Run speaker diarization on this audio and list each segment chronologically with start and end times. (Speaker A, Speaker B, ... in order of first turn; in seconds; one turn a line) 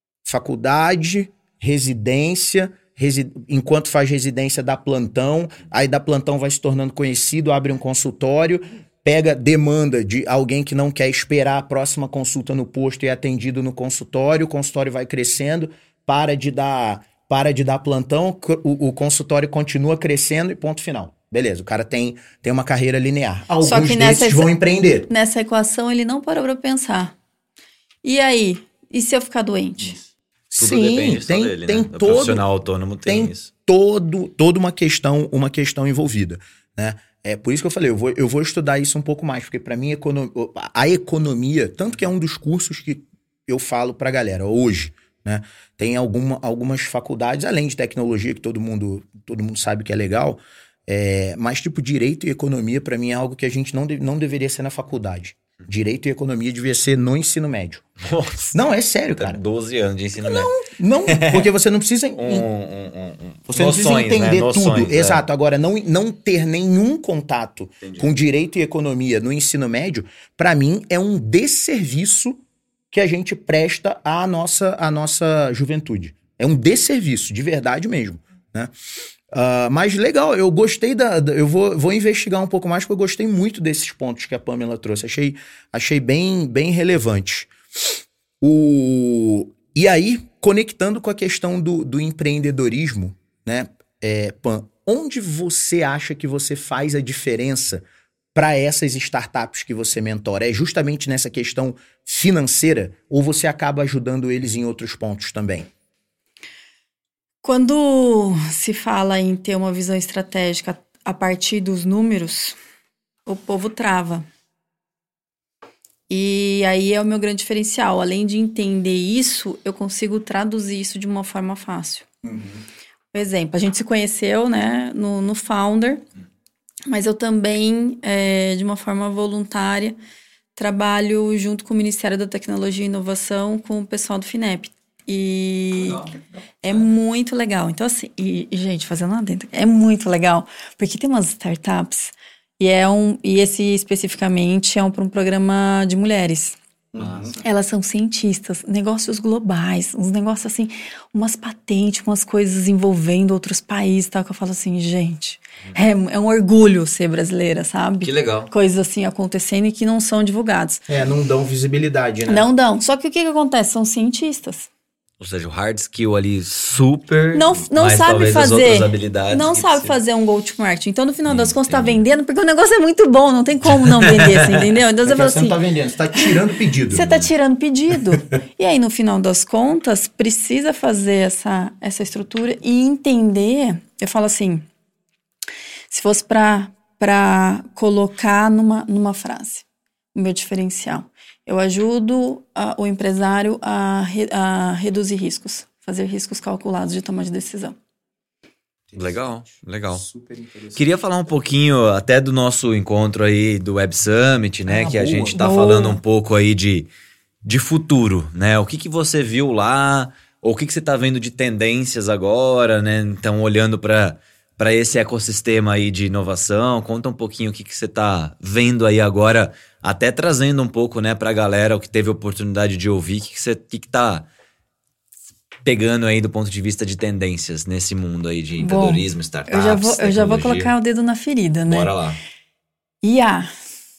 Speaker A: 0.2-25.1
Speaker B: 23.6-24.5
Speaker B: 25.1-27.1
Speaker B: 28.0-29.9
Speaker A: 30.5-32.4
Speaker C: 30.6-33.5
Speaker A: 33.0-57.9
Speaker C: 58.0-58.6
Speaker A: 58.5-59.4
Speaker C: 59.1-60.5
Speaker A: 60.2-62.5
Speaker C: 61.1-61.5
Speaker C: 62.2-65.2
Speaker A: 63.5-78.7
Speaker C: 67.8-68.1
Speaker A: 79.3-87.5
Speaker A: 88.4-105.7
Speaker B: 107.4-112.6
Speaker B: 113.2-114.3
Speaker B: 116.1-122.1
Speaker B: 123.1-126.0
Speaker B: 126.9-130.0
Speaker B: 130.6-136.0
Speaker C: 135.7-136.8
Speaker B: 136.6-146.6
Speaker A: 146.9-147.4
Speaker C: 147.0-147.3
Speaker B: 147.4-160.8
Speaker C: 158.0-158.5
Speaker A: 160.9-162.4
Speaker B: 162.3-164.7
Speaker C: 165.2-169.9
Speaker B: 167.3-175.6
Speaker C: 171.2-172.0
Speaker C: 173.7-174.4
Speaker A: 175.0-177.1
Speaker B: 176.9-184.6
Speaker B: 185.9-197.8
Speaker C: 198.9-200.1
Speaker A: 199.9-200.8
Speaker C: 200.7-206.9
Speaker A: 204.7-205.4
Speaker B: 205.3-206.0
Speaker C: 207.4-224.2
Speaker C: 225.6-230.7
Speaker B: 228.6-231.9
Speaker C: 231.7-232.2
Speaker B: 233.0-233.5